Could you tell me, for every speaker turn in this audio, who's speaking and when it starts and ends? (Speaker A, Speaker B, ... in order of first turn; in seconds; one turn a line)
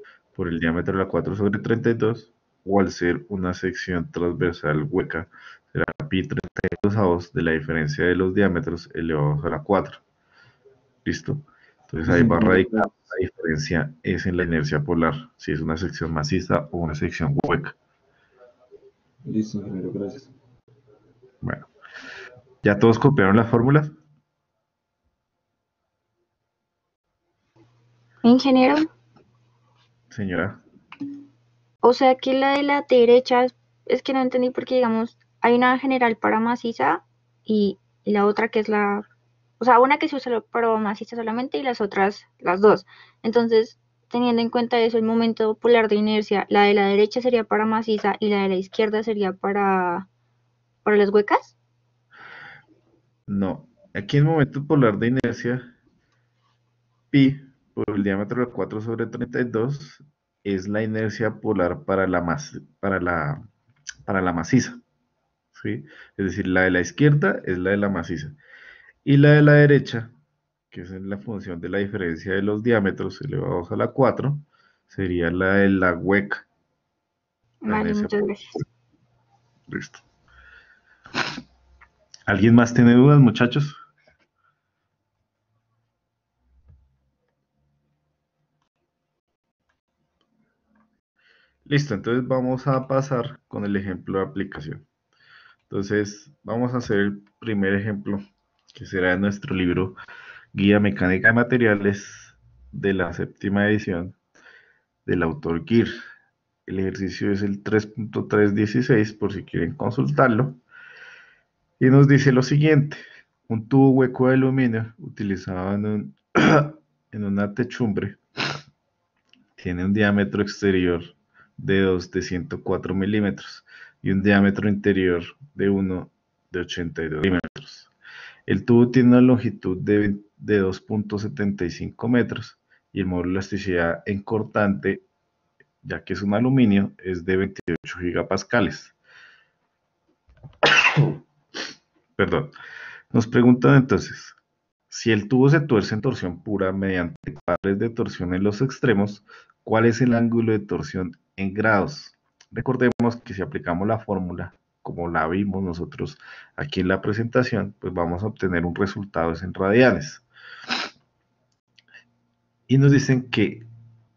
Speaker A: 0.3-10.0
Speaker A: 11.0-17.8
Speaker B: 12.1-12.9
Speaker B: 19.2-20.3
Speaker A: 21.4-21.7
Speaker A: 22.6-23.9
Speaker C: 28.2-28.9
Speaker A: 30.1-30.6
Speaker C: 31.8-39.0
Speaker C: 39.6-50.0
Speaker C: 50.8-51.5
Speaker A: 53.3-55.7
Speaker A: 57.1-63.4
Speaker A: 64.1-64.8
Speaker A: 65.5-68.3
Speaker A: 69.0-70.1
Speaker A: 70.7-76.4
Speaker C: 77.6-78.5
Speaker A: 77.7-78.2
Speaker A: 79.7-80.0
Speaker A: 82.3-83.8
Speaker A: 91.7-94.8
Speaker A: 95.7-98.2
Speaker A: 98.7-100.0
Speaker A: 100.5-104.2
Speaker A: 105.0-105.9
Speaker A: 106.7-110.6
Speaker A: 111.8-118.2
Speaker A: 119.5-127.9
Speaker A: 128.5-135.0
Speaker A: 135.8-138.9
Speaker A: 140.6-141.2
Speaker A: 142.2-142.5
Speaker A: 143.1-144.4
Speaker A: 144.9-160.2
Speaker A: 162.7-163.7